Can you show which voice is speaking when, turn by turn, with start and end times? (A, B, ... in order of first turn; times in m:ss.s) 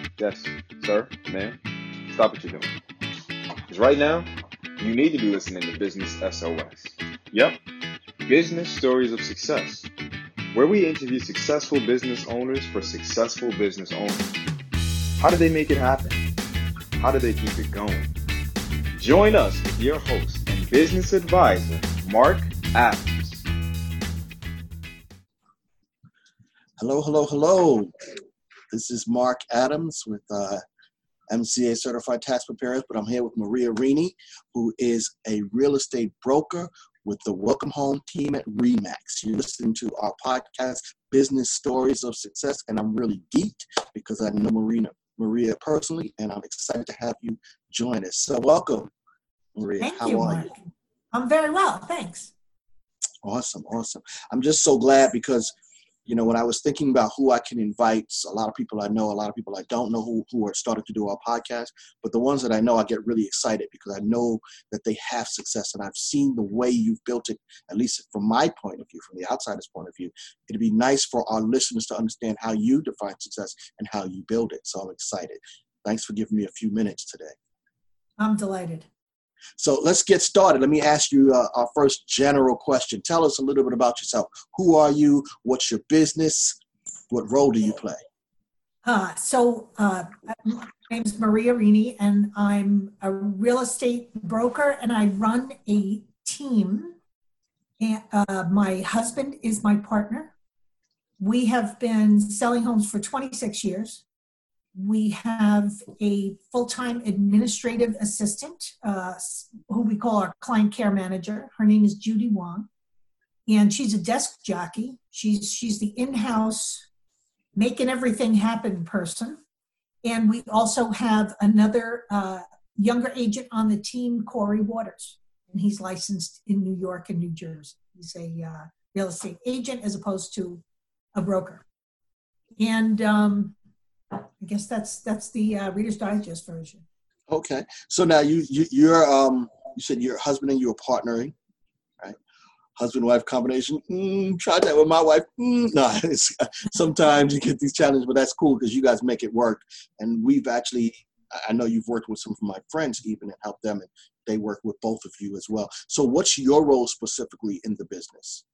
0:00.2-0:01.6 A
0:02.1-0:02.7 A
0:03.7-0:07.6 A
0:08.3-0:09.9 A
0:10.5-0:14.3 A
0:15.2-0:16.2 A
0:17.0-0:18.1 A
0:19.0-0:23.5 A
0:26.8-0:27.9 B
0:28.7-0:30.6 B
0:31.3-0:48.9 B
0:49.6-0:50.5 B
0:49.8-0:52.3 C
0:53.2-0:55.5 B
0:56.1-1:17.4 B
1:18.2-1:18.9 C
1:19.6-1:26.6 B
1:27.1-1:28.0 B
1:28.8-1:37.0 C
1:37.8-1:40.3 C
1:41.2-1:44.0 C
1:44.8-1:52.7 C
1:53.5-1:56.9 C
1:57.6-1:59.4 C
2:00.0-2:10.6 C
2:11.2-2:11.6 C
2:12.6-2:13.6 C
2:14.4-2:16.8 C
2:17.3-2:21.4 B
2:22.8-2:38.4 B